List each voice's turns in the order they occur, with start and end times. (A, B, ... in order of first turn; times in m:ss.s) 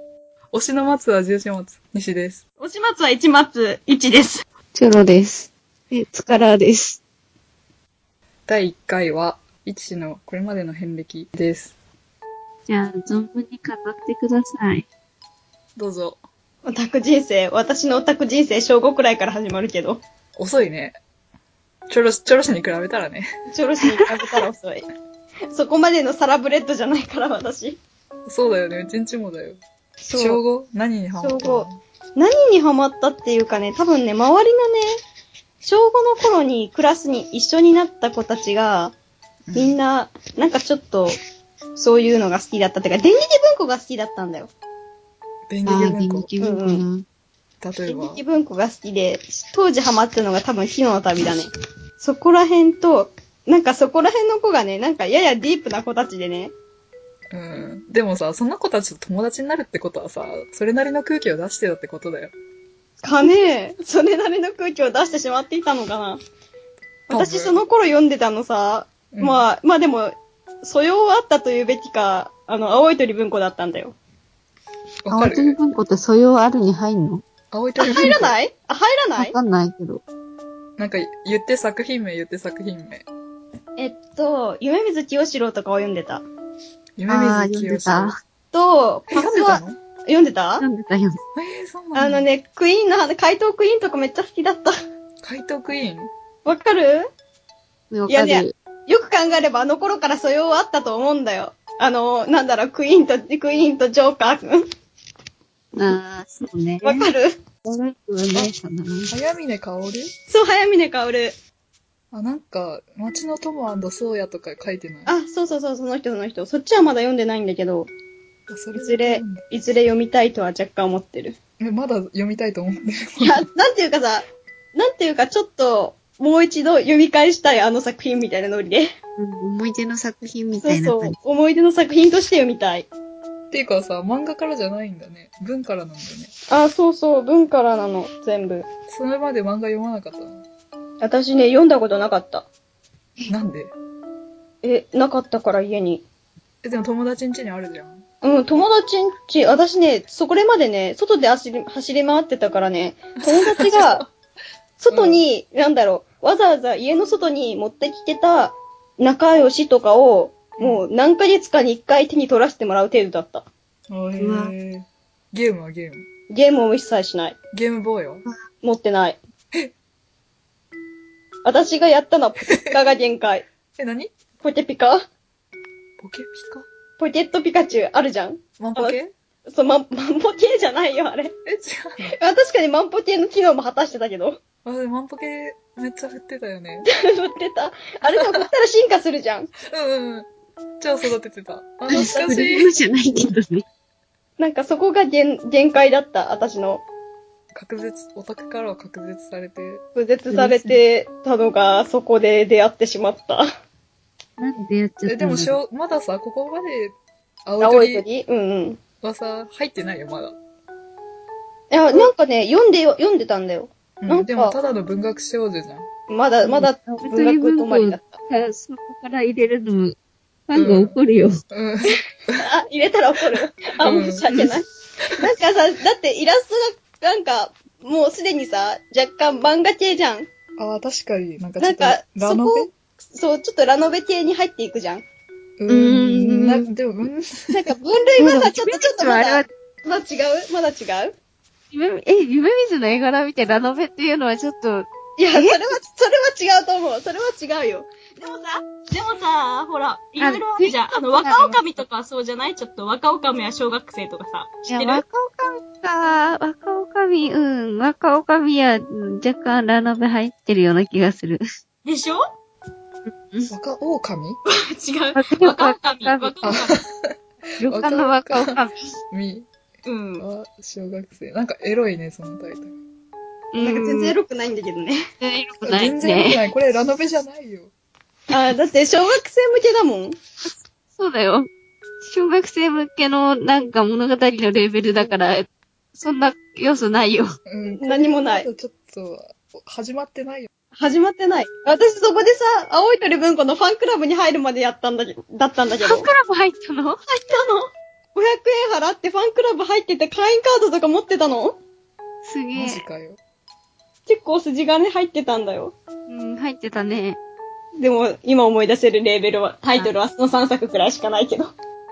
0:00.5-0:02.4 A
0:02.6-0:04.4 B
0:04.7-0:07.0 C
0:08.5-0:11.7 A
0:12.7-0:14.8 C
0:15.8-0:16.2 A
0:16.6-0:20.0 B
0:20.4-0:21.0 A
0:21.9-0:23.3 A
0:23.5-0:24.8 B
0:25.5-0:27.8 B
0:28.2-0:29.6 A
0:30.0-0:30.4 B
0:30.2-0:31.8 A
0:31.2-0:34.9 B
0:35.6-0:38.9 B
0:39.5-0:39.8 A
0:39.5-0:41.1 B
0:41.8-0:44.5 B
0:45.5-0:46.3 A
0:45.6-0:47.0 C
0:46.4-0:46.8 B
0:47.6-0:48.2 A
0:47.9-0:56.5 B
0:57.3-1:02.3 A
1:03.0-1:06.2 B
1:07.1-1:14.0 B
1:07.1-1:07.6 A
1:09.1-1:09.4 A
1:15.0-1:15.6 A
1:15.1-1:17.2 C
1:17.5-1:18.3 A
1:17.8-1:19.4 B
1:19.2-1:20.0 C
1:20.8-1:23.0 A
1:23.8-1:26.2 B
1:27.0-1:28.1 A
1:27.1-1:28.2 C
1:28.5-1:30.6 B
1:29.1-1:29.8 A
1:30.6-1:31.2 C
1:31.3-1:32.3 A
1:31.9-1:34.7 B
1:35.2-1:36.1 A
1:36.4-1:37.1 B
1:37.9-1:38.5 C
1:38.1-1:44.6 B
1:45.7-1:47.1 C
1:46.8-1:47.4 B
1:47.6-1:49.1 C
1:49.1-1:50.1 A
1:50.3-1:51.4 B
1:52.1-1:55.1 A
1:55.1-1:57.9 B
1:58.5-1:59.4 A
1:58.7-2:01.4 B
2:01.6-2:03.4 A
2:03.2-2:08.9 B
2:09.2-2:11.1 C
2:10.6-2:12.9 B
2:13.5-2:16.3 A
2:16.5-2:18.6 B
2:18.9-2:20.4 A
2:21.0-2:22.5 B
2:23.3-2:23.7 A
2:24.6-2:26.0 B
2:26.6-2:28.0 A
2:28.2-2:34.0 B
2:33.2-2:34.1 A
2:34.8-2:43.5 B
2:34.9-2:35.2 A
2:40.6-2:40.8 A
2:43.9-2:46.1 A
2:44.2-2:44.5 C
2:46.3-2:47.4 B
2:47.5-2:48.2 A
2:48.6-2:49.2 B
2:51.4-2:53.4 B
2:53.8-2:54.1 A
2:54.4-2:55.0 B
2:56.0-2:56.6 A
2:57.0-3:01.3 B
2:58.6-2:59.1 A
3:01.4-3:02.1 A
3:02.0-3:04.4 B
3:04.6-3:06.9 A
3:06.9-3:09.5 B
3:08.0-3:08.5 A
3:09.7-3:10.3 A
3:10.8-3:12.7 A
3:11.9-3:13.6 C
3:11.9-3:12.4 B
3:14.4-3:16.8 B
3:17.5-3:19.8 A
3:19.9-3:23.4 B
3:20.3-3:20.6 C
3:24.4-3:25.6 C
3:25.0-3:28.0 A
3:27.6-3:28.8 B
3:29.0-3:30.4 A
3:31.7-3:34.6 B
3:34.0-3:35.9 A
3:36.1-3:38.2 B
3:36.5-3:40.0 C
3:40.5-3:41.3 C
3:40.5-3:41.0 A
3:41.5-3:42.4 A
3:42.4-3:50.3 B
3:43.8-3:44.2 A
3:44.3-3:44.5 C
3:50.6-3:52.7 A
3:51.6-3:55.0 B
3:55.6-3:57.6 A
3:55.7-3:56.6 C
3:57.5-4:01.1 B
3:58.2-3:59.5 C
4:01.7-4:05.6 C
4:05.2-4:15.0 B
4:10.2-4:11.6 C
4:14.6-4:21.4 C
4:21.8-4:22.3 B
4:23.1-4:23.5 C
4:23.5-4:24.4 A
4:24.5-4:26.8 B
4:25.2-4:26.3 C
4:26.4-4:28.6 A
4:27.6-4:28.7 C
4:29.1-4:29.5 A
4:29.8-4:30.2 B
4:30.2-4:32.7 A
4:33.5-4:34.2 C
4:33.6-4:35.0 B
4:35.2-4:36.4 C
4:35.6-4:37.7 A
4:38.3-4:40.2 B
4:41.0-4:41.5 C
4:42.0-4:47.3 C
4:47.5-4:50.5 A
4:47.8-4:48.5 B
4:50.8-4:56.1 B
4:55.8-4:57.0 C
4:57.1-5:01.6 B
5:02.2-5:02.8 C
5:02.5-5:03.2 A
5:04.1-5:05.7 B
5:06.1-5:07.2 C
5:07.8-5:11.5 B